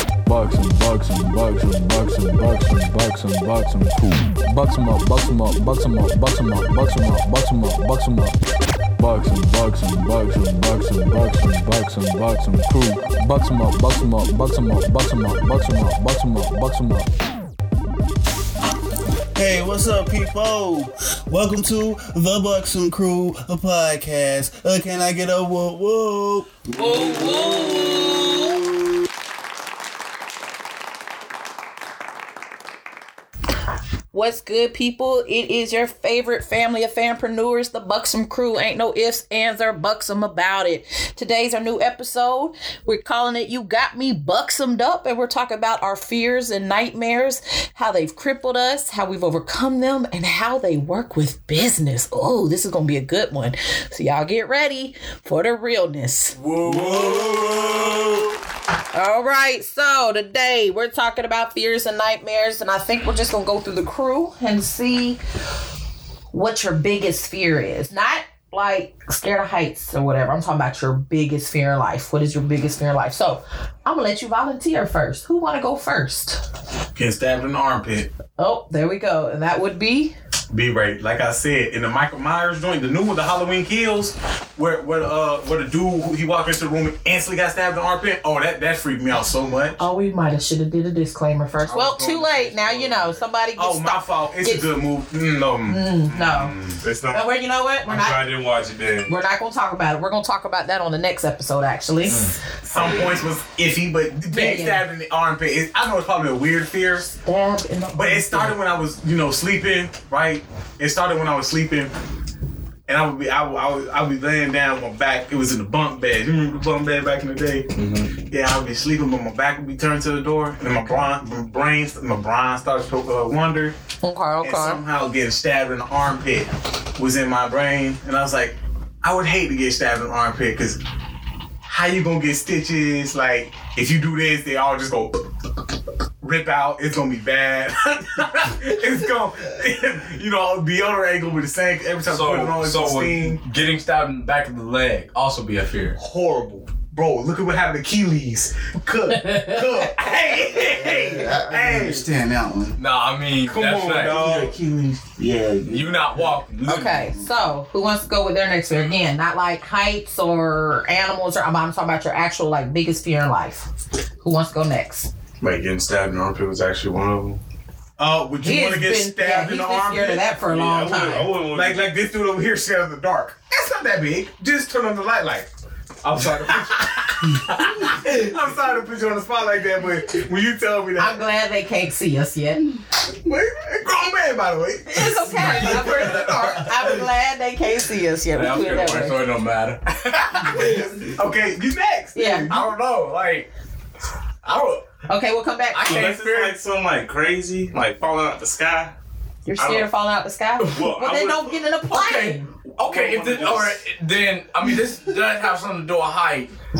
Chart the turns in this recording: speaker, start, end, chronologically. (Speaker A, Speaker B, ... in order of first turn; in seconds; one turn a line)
Speaker A: 0.2-8.4
Speaker A: 9.0-17.1
Speaker B: 19.3-28.0
Speaker C: 26.7-28.6
Speaker C: 34.1-56.4
Speaker D: 56.4-57.9
Speaker E: 56.6-57.6
Speaker B: 56.8-57.8
Speaker C: 58.9-65.2
Speaker C: 66.3-76.4
Speaker F: 76.9-78.1
Speaker C: 78.4-80.1
Speaker F: 80.5-89.8
Speaker C: 89.8-94.7
Speaker D: 91.7-93.2
Speaker F: 93.6-96.8
Speaker C: 95.7-96.5
Speaker E: 96.8-97.3
Speaker C: 97.1-98.2
Speaker E: 97.8-99.1
Speaker C: 99.0-102.2
Speaker D: 102.1-102.3
Speaker F: 102.6-107.0
Speaker C: 104.3-104.8
Speaker C: 107.0-108.5
Speaker F: 107.9-111.9
Speaker F: 112.9-117.7
Speaker E: 117.7-118.2
Speaker F: 118.3-123.8
Speaker C: 124.0-124.8
Speaker F: 124.4-130.8
Speaker F: 131.7-135.2
Speaker F: 136.2-143.4
Speaker D: 142.1-146.0
Speaker F: 145.9-152.1
Speaker C: 149.3-149.5
Speaker B: 150.6-152.8
Speaker D: 152.8-154.2
Speaker F: 153.4-154.5
Speaker B: 154.0-156.3
Speaker D: 155.6-157.1
Speaker C: 156.6-163.7
Speaker C: 164.2-165.1
Speaker E: 165.4-167.4
Speaker F: 168.0-170.3
Speaker C: 168.4-171.3
Speaker E: 170.4-171.9
Speaker F: 171.4-175.5
Speaker F: 176.0-181.2
Speaker C: 181.0-182.7
Speaker F: 183.2-187.0
Speaker C: 184.9-189.2
Speaker D: 188.3-190.8
Speaker F: 190.4-192.8
Speaker C: 192.1-192.5
Speaker D: 192.5-193.5
Speaker D: 194.4-194.8
Speaker C: 195.1-196.0
Speaker D: 195.7-196.5
Speaker E: 195.8-198.9
Speaker F: 195.8-196.1
Speaker C: 199.4-202.5
Speaker E: 199.6-199.9
Speaker E: 200.6-201.6
Speaker D: 201.9-206.5
Speaker E: 202.7-203.8